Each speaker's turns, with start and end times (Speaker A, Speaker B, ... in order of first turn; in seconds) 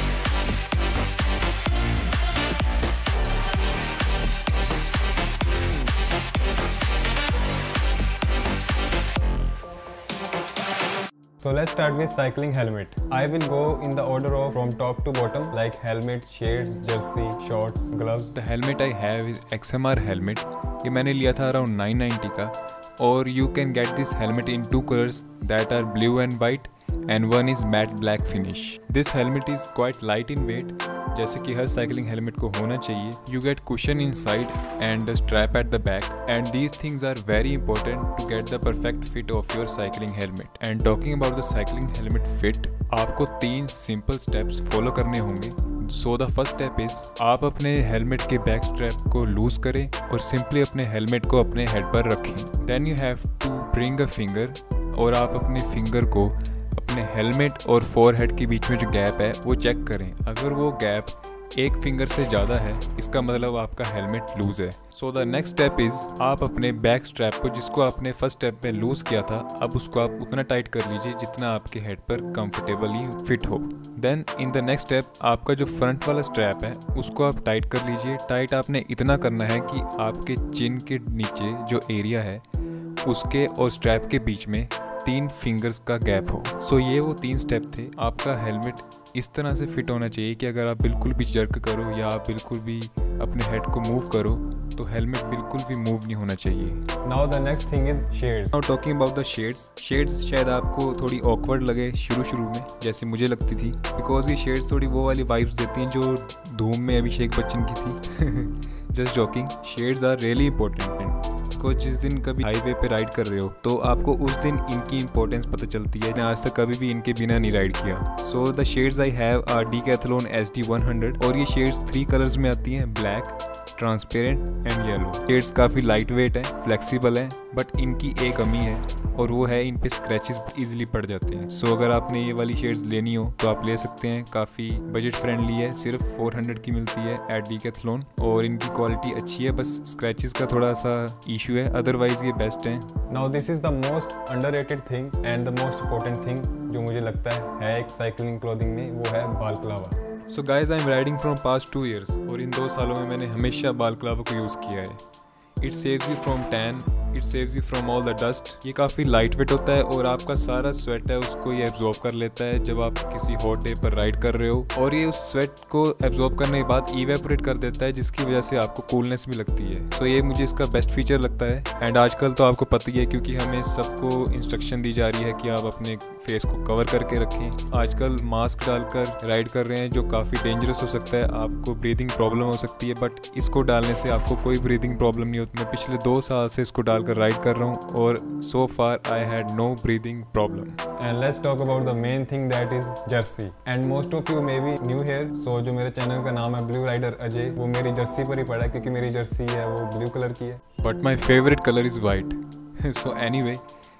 Speaker A: 11.4-18.4, 97.0-98.6, 143.1-150.0, 191.0-200.6
Speaker B: 18.4-82.4, 83.0-96.9, 98.5-142.9, 150.3-155.0, 155.6-190.8, 200.8-203.6